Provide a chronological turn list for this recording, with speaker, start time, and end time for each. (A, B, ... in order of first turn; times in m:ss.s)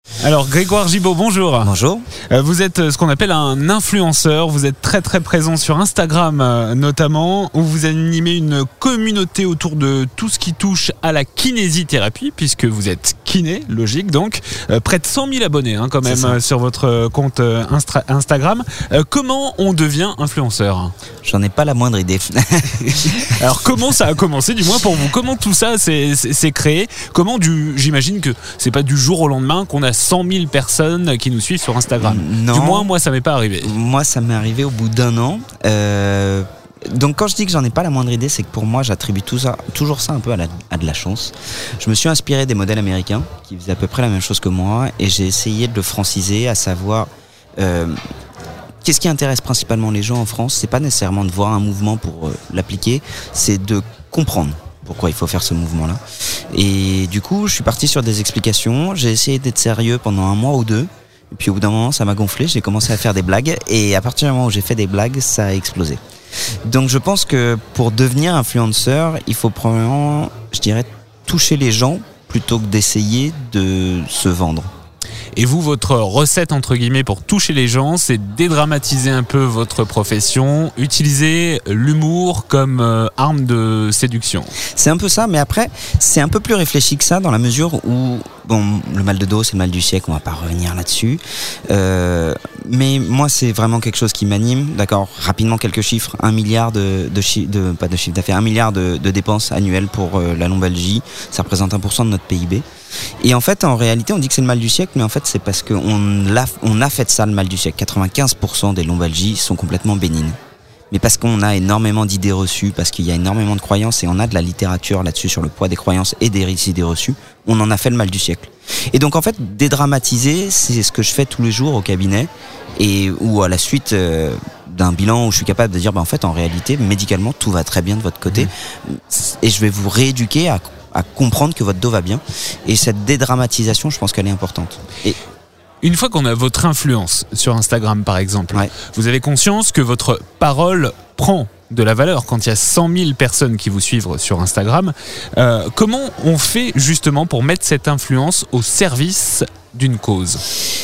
0:00.2-0:01.7 A
0:01.6-0:02.1 B
0:02.3-0:20.9 A
0:16.0-0:16.4 B
0:21.2-0:23.3 B
0:22.8-0:33.7 A
0:32.0-0:32.9 B
0:33.6-0:48.0 B
0:48.8-0:56.0 B
0:56.5-1:06.0 B
1:06.7-1:14.7 B
1:15.4-1:24.5 A
1:24.8-1:42.6 B
1:43.2-1:50.4 B
1:50.9-2:15.2 B
2:15.8-2:30.4 A